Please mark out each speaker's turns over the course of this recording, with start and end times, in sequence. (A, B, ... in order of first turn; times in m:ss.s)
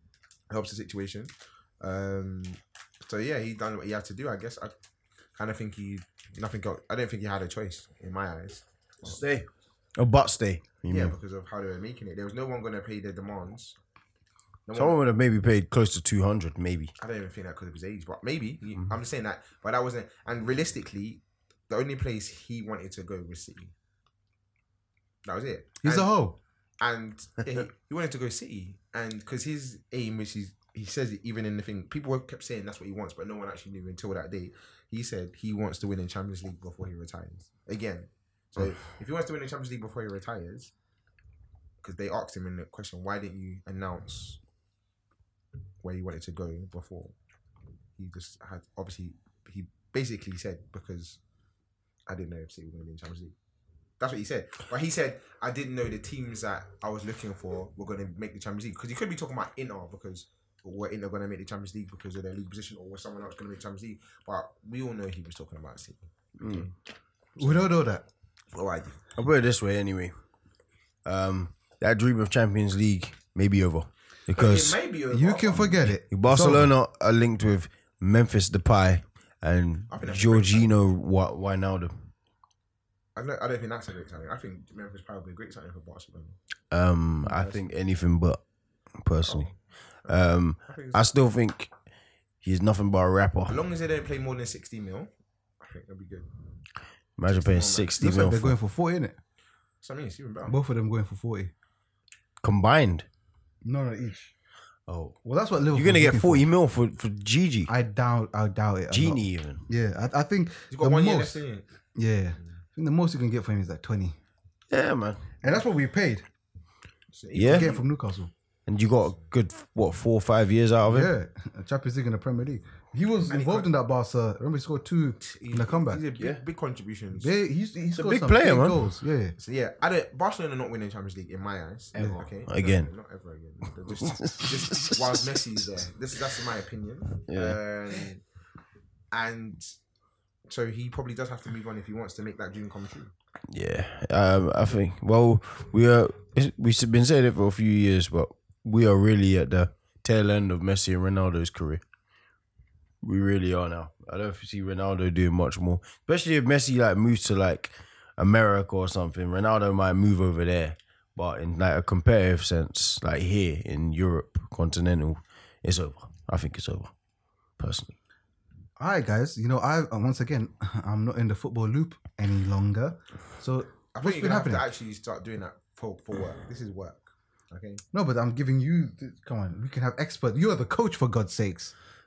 0:00.5-0:04.7 A
0:05.4-0:09.2 A
0:09.0-0:11.2 B
0:10.9-0:13.8 A
0:14.7-0:15.0 A
0:14.7-0:16.9 B
0:17.0-0:23.7 A
0:25.2-0:26.1 A
0:25.8-0:26.4 C
0:26.8-0:40.7 A
0:41.8-0:44.4 A
0:45.8-0:47.2 A
0:48.0-0:51.2 A
0:52.1-0:53.4 A
0:54.0-1:06.7 A
1:06.4-1:06.7 B
1:07.4-1:08.0 C
1:07.4-1:07.7 A
1:08.5-1:09.0 A
1:09.2-1:10.1 B
1:11.0-1:14.8 B
1:14.3-1:16.0 A
1:15.1-1:16.7 C
1:16.0-1:22.0 B
1:19.9-1:20.8 A
1:23.2-1:26.4 A
1:26.7-1:28.4 B
1:27.2-1:27.7 A
1:29.0-1:29.5 B
1:29.2-1:31.1 A
1:30.1-1:31.7 B
1:32.4-1:33.6 B
1:33.5-1:36.3 A
1:37.2-1:38.6 B
1:37.3-1:38.0 A
1:38.0-1:39.2 C
1:39.8-1:40.6 A
1:40.5-1:41.5 C
1:42.4-1:43.1 B
1:43.6-1:44.3 C
1:44.9-1:45.2 B
1:45.2-1:46.5 C
1:45.7-1:47.7 B
1:47.7-1:51.4 C
1:48.9-1:49.6 B
1:50.7-1:51.7 A
1:52.0-1:54.2 C
1:54.7-1:55.3 B
1:55.4-1:56.3 C
1:57.1-1:57.9 A
1:57.3-1:57.7 B
1:57.4-1:58.3 C
1:58.7-2:01.1 B
2:00.9-2:06.0 C
2:03.3-2:03.7 A
2:05.2-2:07.3 A
2:07.2-2:09.4 C
2:07.9-2:08.9 B
2:09.4-2:18.2 A
2:12.0-2:12.2 C
2:12.5-2:12.9 B
2:14.0-2:15.4 B
2:17.3-2:17.6 B
2:19.1-2:19.7 A
2:20.5-2:23.1 A
2:23.5-2:31.8 B
2:33.0-2:46.9 B
2:47.6-2:48.0 B
2:48.8-2:54.7 C
2:53.9-2:57.8 A
2:57.9-3:01.7 C